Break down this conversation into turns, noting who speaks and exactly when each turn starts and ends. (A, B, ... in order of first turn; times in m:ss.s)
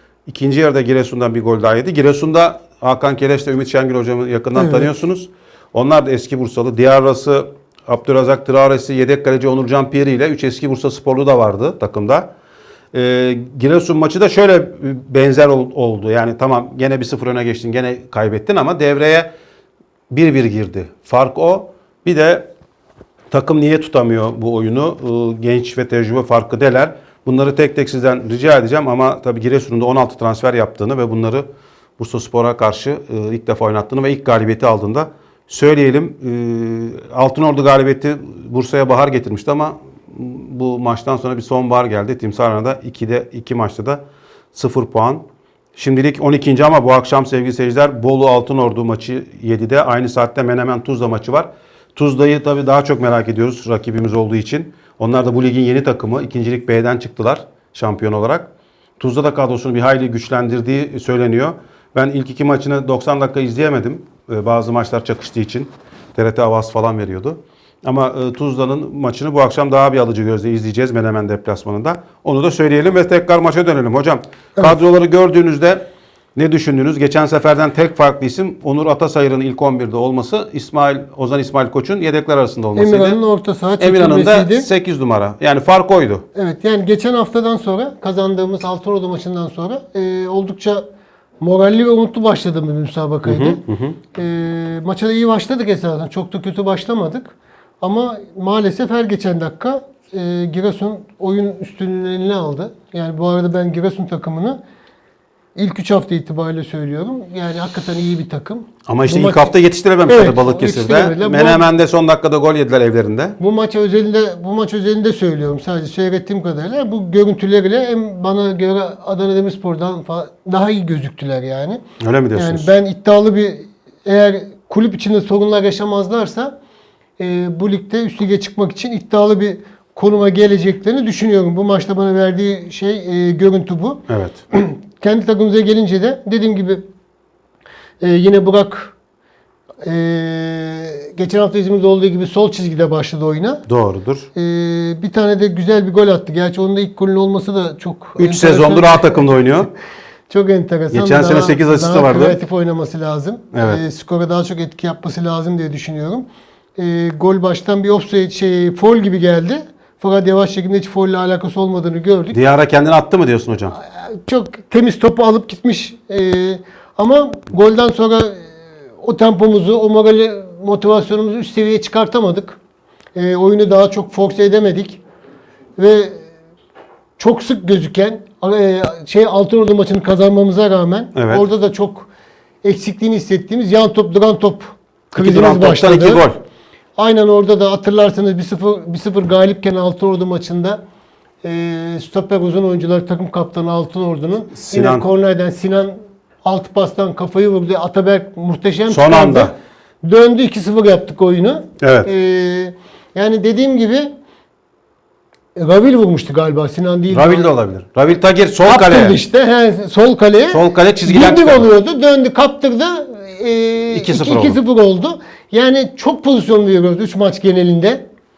0:00.3-0:12.3 A
0:04.6-0:04.9 B
0:12.9-0:19.3 A
0:20.1-0:22.5 A
0:23.3-0:31.5 A
0:32.0-0:44.0 A
0:44.5-0:45.2 A
0:45.8-1:23.2 A
1:22.7-1:24.7 B
1:23.8-1:26.2 A
1:26.3-1:30.8 B
1:31.4-1:33.6 B
1:33.2-1:34.0 A
1:34.1-1:44.6 B
1:45.5-1:49.5 B
1:48.8-1:53.4 A
1:50.0-1:51.6 B
1:53.4-2:01.8 B
2:02.0-2:02.7 A
2:02.3-2:06.5 B
2:07.2-2:16.8 B
2:14.1-2:14.4 A
2:18.0-2:18.9 B
2:19.8-2:23.6 B
2:23.7-2:24.3 A
2:24.3-2:29.5 B
2:28.2-2:29.7 A
2:30.3-2:42.4 B
2:30.9-2:32.4 A
2:33.5-2:33.8 A
2:42.3-2:43.8 A
2:43.8-2:48.5 B
2:49.0-2:52.6 B
2:53.1-2:55.0 B
2:55.8-2:56.2 B
2:57.2-3:02.1 B
3:01.1-3:01.4 A
3:02.6-3:06.3 B
3:05.1-3:06.4 A
3:07.0-3:10.8 B
3:11.4-3:24.1 B
3:14.5-3:15.0 A
3:18.9-3:19.5 A
3:21.8-3:22.1 A
3:25.6-3:27.4 B
3:27.1-3:29.2 A
3:28.6-3:38.0 B
3:30.5-3:31.7 A
3:33.9-3:34.6 A